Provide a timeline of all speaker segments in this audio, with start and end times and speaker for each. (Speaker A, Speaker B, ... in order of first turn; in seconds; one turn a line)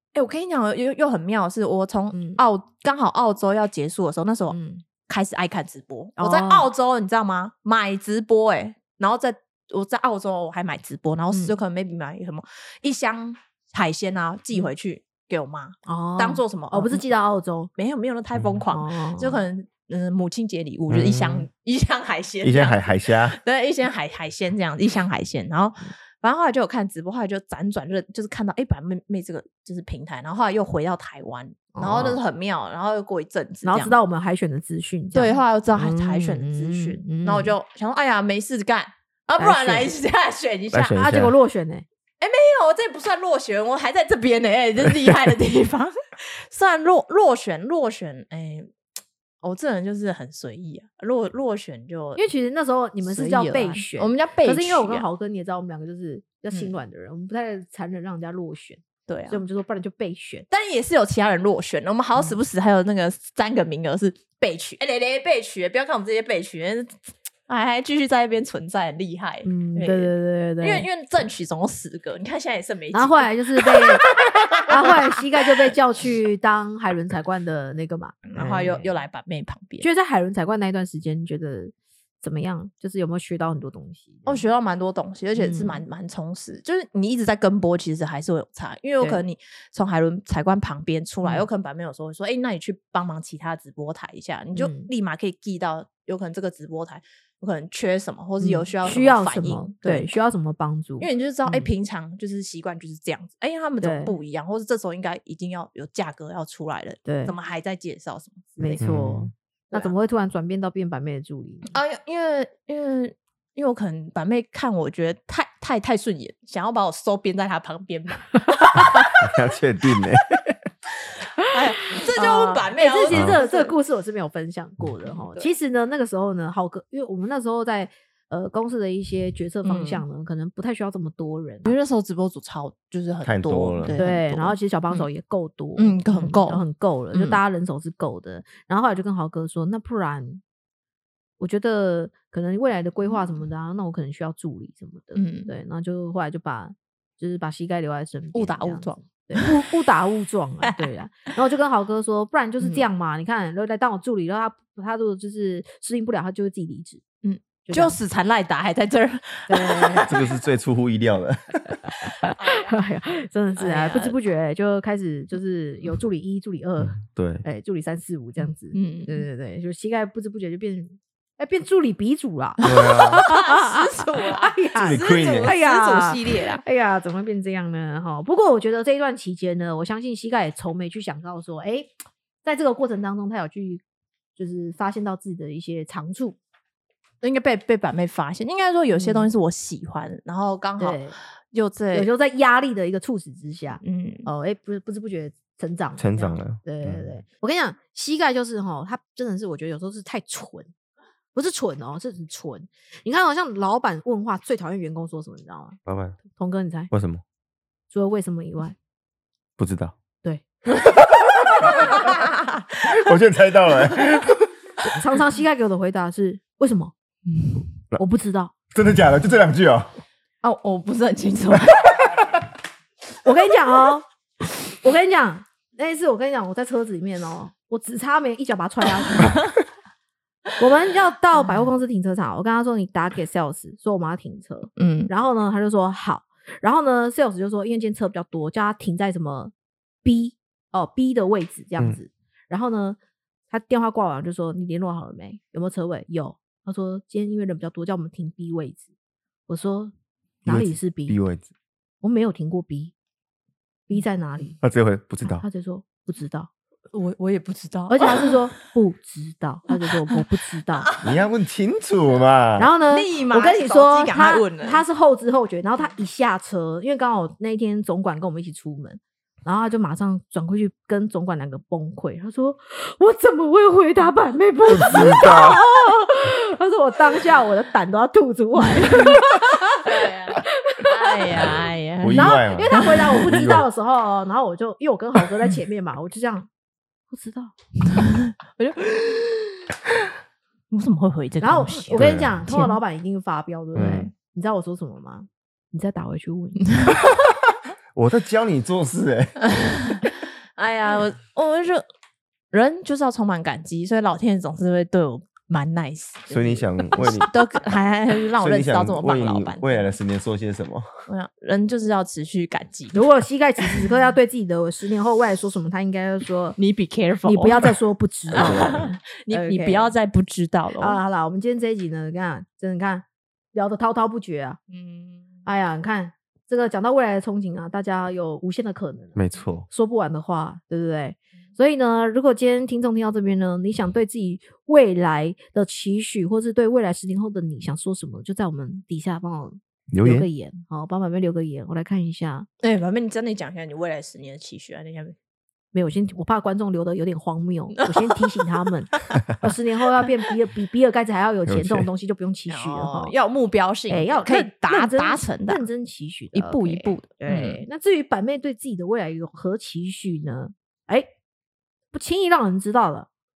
Speaker A: 0.1-17.1
Speaker B: 2.1-2.4
Speaker B: 4.5-4.8
Speaker B: 6.2-6.7
Speaker B: 15.9-17.7
Speaker A: 17.8-33.9
Speaker B: 18.7-19.4
Speaker C: 20.9-21.5
Speaker C: 22.4-23.4
Speaker B: 31.7-32.2
Speaker B: 33.6-37.5
Speaker A: 35.1-41.0
Speaker B: 39.4-39.9
Speaker C: 40.7-41.3
Speaker B: 40.9-41.8
Speaker A: 42.2-48.7
Speaker A: 49.4-52.2
Speaker B: 52.2-60.5
Speaker A: 53.0-55.0
Speaker A: 59.1-59.4
Speaker A: 60.5-75.2
Speaker B: 69.4-70.9
Speaker B: 72.9-74.1
Speaker B: 74.7-78.9
Speaker A: 78.3-79.9
Speaker B: 79.8-84.4
Speaker A: 84.2-100.1
Speaker B: 85.4-85.8
Speaker B: 94.5-94.9
Speaker B: 98.4-101.7
Speaker A: 101.0-108.9
Speaker B: 103.8-104.1
Speaker B: 107.0-107.3
Speaker B: 108.6-111.7
Speaker C: 108.8-109.3
Speaker A: 111.7-119.1
Speaker B: 118.5-119.1
Speaker C: 119.2-120.5
Speaker B: 121.4-131.8
Speaker A: 121.5-123.7
Speaker C: 123.1-123.4
Speaker A: 125.1-125.5
Speaker A: 129.6-130.0
Speaker A: 131.6-135.1
Speaker C: 133.2-134.0
Speaker B: 133.9-140.4
Speaker A: 135.8-137.4
Speaker B: 141.4-157.0
Speaker A: 145.1-145.5
Speaker A: 148.3-149.7
Speaker A: 150.6-150.9
Speaker A: 152.6-152.8
Speaker A: 157.2-160.1
Speaker B: 157.6-158.0
Speaker B: 159.5-160.1
Speaker C: 160.1-161.7
Speaker A: 162.1-162.8
Speaker B: 162.2-183.8
Speaker A: 163.6-164.1
Speaker C: 166.8-167.4
Speaker A: 168.7-169.2
Speaker C: 172.6-173.2
Speaker A: 172.7-176.6
Speaker C: 174.8-175.6
Speaker B: 184.4-186.4
Speaker A: 187.2-192.1
Speaker B: 188.9-189.3
Speaker B: 190.8-191.1
Speaker B: 191.9-200.7
Speaker A: 193.8-194.3
Speaker C: 196.0-197.1
Speaker B: 201.3-205.8
Speaker C: 205.8-206.2
Speaker B: 206.3-206.9
Speaker C: 206.9-207.2
Speaker B: 207.9-208.8
Speaker C: 209.6-209.9
Speaker B: 210.2-210.9
Speaker A: 211.8-213.0
Speaker C: 212.8-214.5
Speaker B: 214.8-216.9
Speaker A: 217.3-217.6
Speaker B: 218.0-218.5
Speaker C: 218.7-219.9
Speaker A: 220.4-222.1
Speaker B: 223.2-224.0
Speaker B: 224.7-229.5
Speaker B: 230.6-239.5
Speaker A: 234.8-235.1
Speaker B: 240.0-243.0
Speaker B: 243.5-248.8
Speaker B: 249.5-249.9
Speaker B: 250.4-251.2
Speaker C: 250.4-251.5
Speaker B: 252.0-252.9
Speaker B: 253.9-254.6
Speaker C: 254.6-255.4
Speaker B: 255.3-256.5
Speaker A: 256.9-258.4
Speaker B: 257.9-260.9
Speaker A: 259.7-260.2
Speaker A: 260.8-261.2
Speaker C: 261.0-262.7
Speaker B: 262.6-281.5
Speaker A: 262.9-264.8
Speaker C: 274.7-275.6
Speaker A: 278.7-279.2
Speaker A: 279.8-283.2
Speaker C: 281.3-283.7
Speaker B: 282.1-286.5
Speaker B: 287.1-287.5
Speaker A: 287.8-289.8
Speaker A: 290.7-292.8
Speaker B: 291.4-296.9
Speaker C: 292.0-292.5
Speaker C: 293.7-294.1
Speaker A: 296.6-297.0
Speaker C: 297.9-300.0
Speaker A: 299.4-301.9
Speaker A: 302.5-309.9
Speaker C: 306.3-307.3
Speaker C: 308.4-310.9
Speaker A: 311.1-313.1
Speaker B: 312.9-316.6
Speaker A: 313.6-313.9
Speaker A: 316.6-317.8
Speaker B: 317.2-319.9
Speaker C: 318.3-318.9
Speaker A: 318.3-321.0
Speaker B: 320.8-324.6
Speaker A: 324.7-325.4
Speaker B: 325.4-342.5
Speaker C: 329.1-329.7
Speaker C: 339.9-340.3
Speaker A: 342.6-345.1
Speaker B: 345.7-353.1
Speaker A: 347.8-348.1
Speaker C: 351.5-351.9
Speaker A: 352.5-355.6
Speaker B: 353.9-361.1
Speaker A: 356.3-357.6
Speaker B: 361.9-363.1